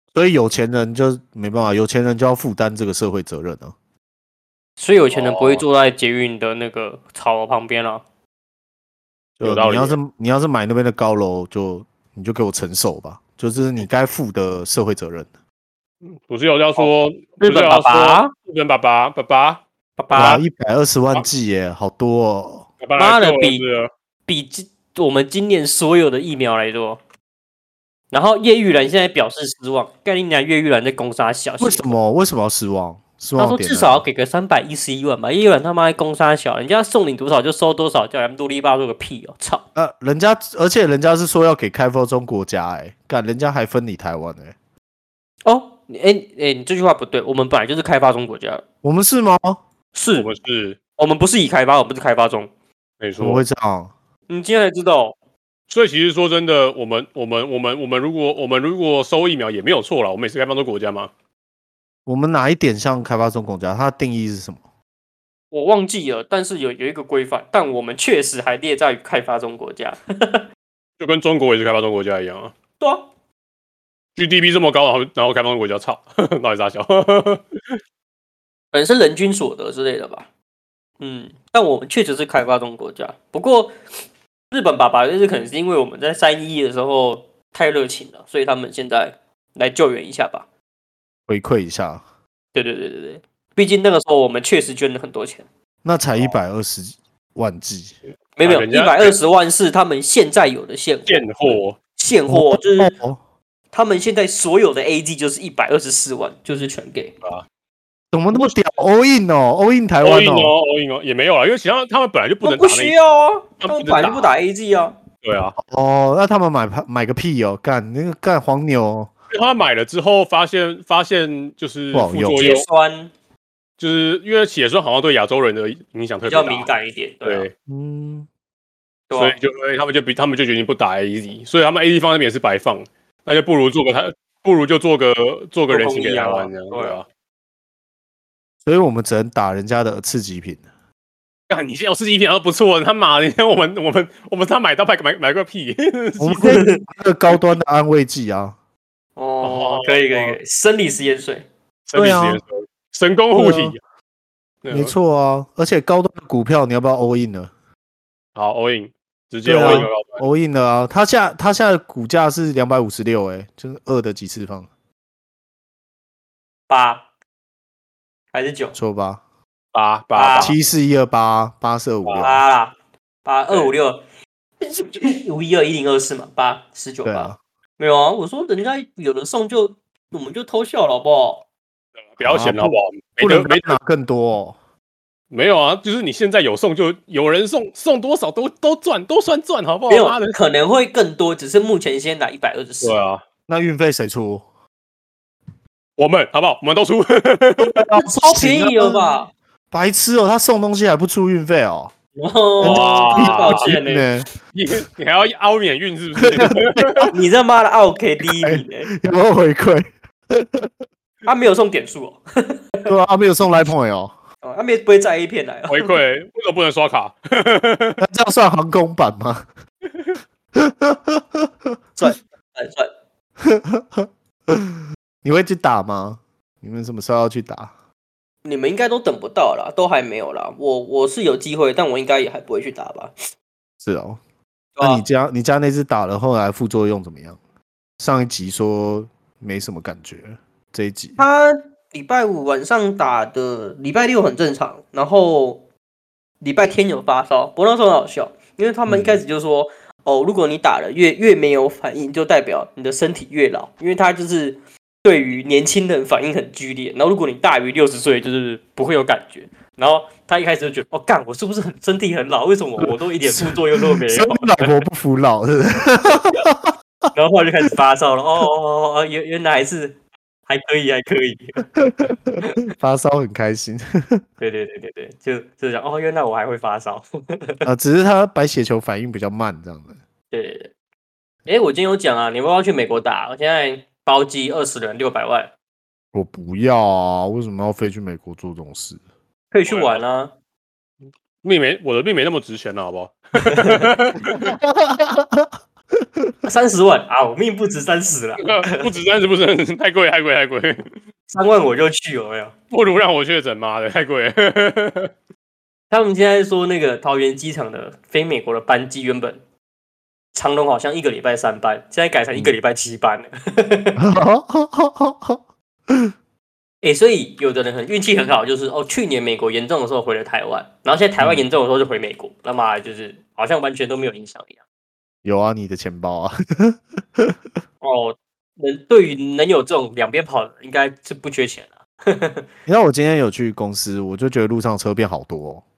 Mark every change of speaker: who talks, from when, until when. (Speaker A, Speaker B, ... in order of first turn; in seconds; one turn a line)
Speaker A: 0.1-3.7
Speaker B: 4.8-8.0
Speaker C: 5.1-5.6
Speaker A: 9.4-15.3
Speaker C: 9.4-10.0
Speaker C: 16.1-19.6
Speaker B: 17.4-18.3
Speaker B: 20.0-20.4
Speaker A: 20.1-22.7
Speaker C: 22.8-23.9
Speaker B: 23.0-23.6
Speaker B: 24.3-27.0
Speaker B: 28.1-31.9
Speaker A: 31.6-34.0
Speaker B: 33.4-39.6
Speaker A: 39.8-44.5
Speaker B: 45.5-48.6
Speaker A: 48.8-49.6
Speaker B: 50.0-50.3
Speaker C: 50.1-50.8
Speaker B: 51.0-52.5
Speaker C: 53.0-53.4
Speaker A: 53.2-53.9
Speaker B: 54.3-55.2
Speaker C: 55.7-61.1
Speaker A: 62.1-64.6
Speaker B: 65.5-70.4
Speaker C: 71.0-72.5
Speaker B: 72.8-73.1
Speaker C: 74.2-77.6
Speaker B: 78.7-80.3
Speaker B: 81.0-83.7
Speaker B: 84.5-90.5
Speaker A: 91.3-92.0
Speaker B: 92.5-95.5
Speaker A: 95.8-98.0
Speaker B: 98.4-103.0
Speaker C: 98.4-99.2
Speaker C: 101.1-101.8
Speaker A: 102.3-103.2
Speaker B: 103.7-107.1
Speaker A: 108.1-110.5
Speaker C: 110.0-113.0
Speaker B: 112.4-115.0
Speaker C: 113.6-114.3
Speaker C: 115.2-115.6
Speaker A: 115.6-119.1
Speaker C: 119.3-122.7
Speaker A: 121.9-122.5
Speaker B: 122.3-123.1
Speaker C: 123.8-126.7
Speaker B: 126.2-127.5
Speaker C: 127.2-127.5
Speaker A: 127.7-128.3
Speaker B: 129.1-129.4
Speaker C: 129.1-137.1
Speaker B: 135.7-137.0
Speaker A: 138.7-140.6
Speaker C: 141.5-146.7
Speaker A: 146.2-148.6
Speaker B: 146.4-146.8
Speaker B: 149.2-151.5
Speaker C: 149.4-150.4
Speaker C: 151.9-153.8
Speaker A: 151.9-152.4
Speaker A: 153.3-153.8
Speaker C: 154.6-154.9
Speaker A: 154.7-157.5
Speaker C: 158.4-160.2
Speaker A: 159.4-164.7
Speaker B: 166.7-167.1
Speaker B: 168.3-168.8
Speaker A: 168.8-169.2
Speaker C: 169.7-170.6
Speaker B: 170.2-170.6
Speaker A: 170.4-172.4
Speaker B: 172.1-174.0
Speaker B: 174.6-181.4
Speaker A: 177.0-177.4
Speaker C: 182.0-183.8
Speaker A: 182.2-184.6
Speaker C: 185.3-190.3
Speaker B: 189.9-193.0
Speaker C: 192.8-193.2
Speaker A: 193.5-194.4
Speaker C: 196.0-197.8
Speaker A: 197.6-199.0
Speaker B: 198.0-199.3
Speaker A: 199.7-201.9
Speaker B: 202.2-204.1
Speaker A: 202.6-204.3
Speaker C: 202.6-203.8
Speaker C: 204.5-207.1
Speaker A: 206.2-207.1
Speaker B: 207.1-208.9
Speaker A: 208.4-210.7
Speaker B: 211.2-212.9
Speaker A: 212.9-214.1
Speaker B: 214.4-216.0
Speaker C: 215.7-218.0
Speaker A: 218.0-219.5
Speaker A: 220.6-221.7
Speaker B: 222.0-222.9
Speaker A: 223.4-227.7
Speaker B: 228.4-233.1
Speaker A: 233.8-234.2
Speaker B: 234.8-235.0
Speaker A: 234.8-237.4
Speaker A: 238.0-241.2
Speaker B: 241.2-245.6
Speaker B: 246.4-264.8
Speaker A: 248.9-249.2
Speaker A: 263.2-266.7
Speaker B: 267.1-270.0
Speaker B: 270.5-271.7
Speaker A: 271.8-274.2
Speaker B: 274.4-277.7
Speaker A: 277.6-280.0
Speaker B: 280.3-280.7
Speaker B: 281.5-285.5
Speaker A: 286.1-289.0
Speaker B: 289.5-290.3
Speaker C: 289.7-290.0
Speaker C: 291.4-294.5
Speaker B: 293.4-293.9
Speaker A: 294.4-295.5
Speaker B: 296.4-298.9
Speaker C: 298.4-300.8
Speaker B: 301.3-302.5
Speaker C: 302.7-305.1
Speaker B: 305.9-309.4
Speaker B: 310.3-314.0
Speaker A: 314.0-316.1
Speaker B: 316.8-324.6
Speaker A: 321.2-321.4
Speaker A: 325.2-327.4
Speaker B: 327.8-332.5
Speaker A: 332.7-335.6